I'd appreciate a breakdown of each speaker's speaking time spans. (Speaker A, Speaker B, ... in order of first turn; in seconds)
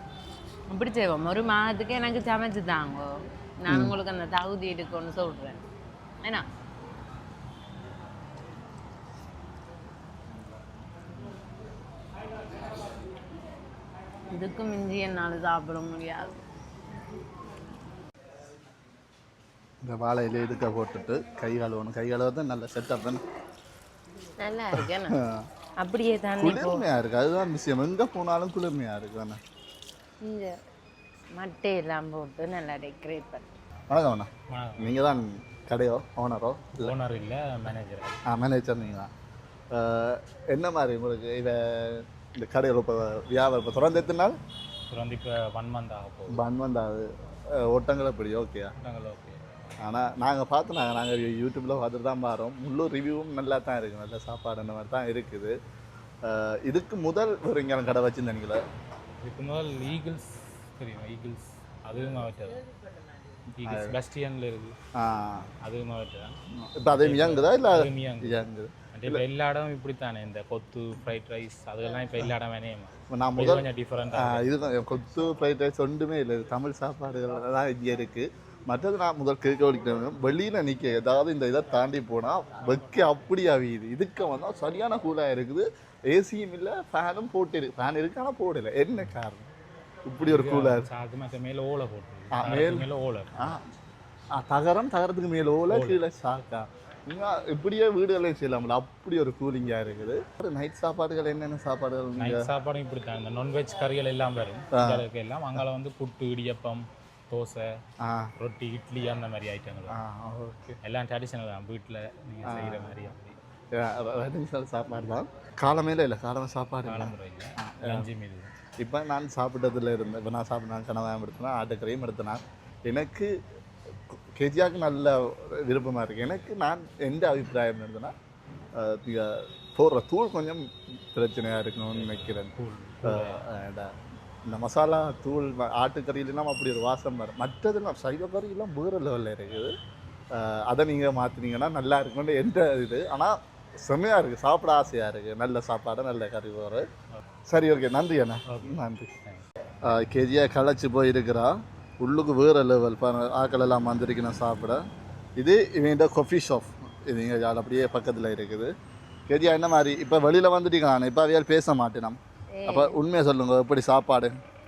Speaker A: 0.7-5.6, 14.3-16.4, 24.4-25.2, 25.8-26.9, 30.2-30.6, 31.3-33.5, 162.5-163.0
Speaker B: 3.7-3.9, 19.8-23.2, 24.7-25.4, 26.4-29.4, 33.9-36.9, 38.2-39.1, 39.7-44.4, 46.3-48.7, 49.8-55.5, 56.2-58.6, 63.6-63.9, 64.9-65.5, 66.5-69.2, 73.1-89.5, 90.0-90.9, 92.3-93.6, 94.3-102.5, 104.7-105.0, 108.0-108.3, 109.9-110.7, 112.5-113.0, 113.7-118.1, 118.8-123.3, 124.1-128.1, 128.7-132.5, 133.0-133.9, 134.4-139.7, 140.3-146.9, 147.5-149.1, 149.8-154.8, 155.4-158.7, 159.3-164.3
Speaker C: 34.5-35.0, 36.8-38.2, 44.9-46.4, 48.8-49.4, 59.2-62.6, 63.5-64.8, 65.5-68.4, 68.9-74.5, 90.2-93.6, 95.7-96.0, 102.2-107.8, 108.4-110.0, 110.8-113.4, 116.8-118.5, 131.9-133.4, 148.5-149.4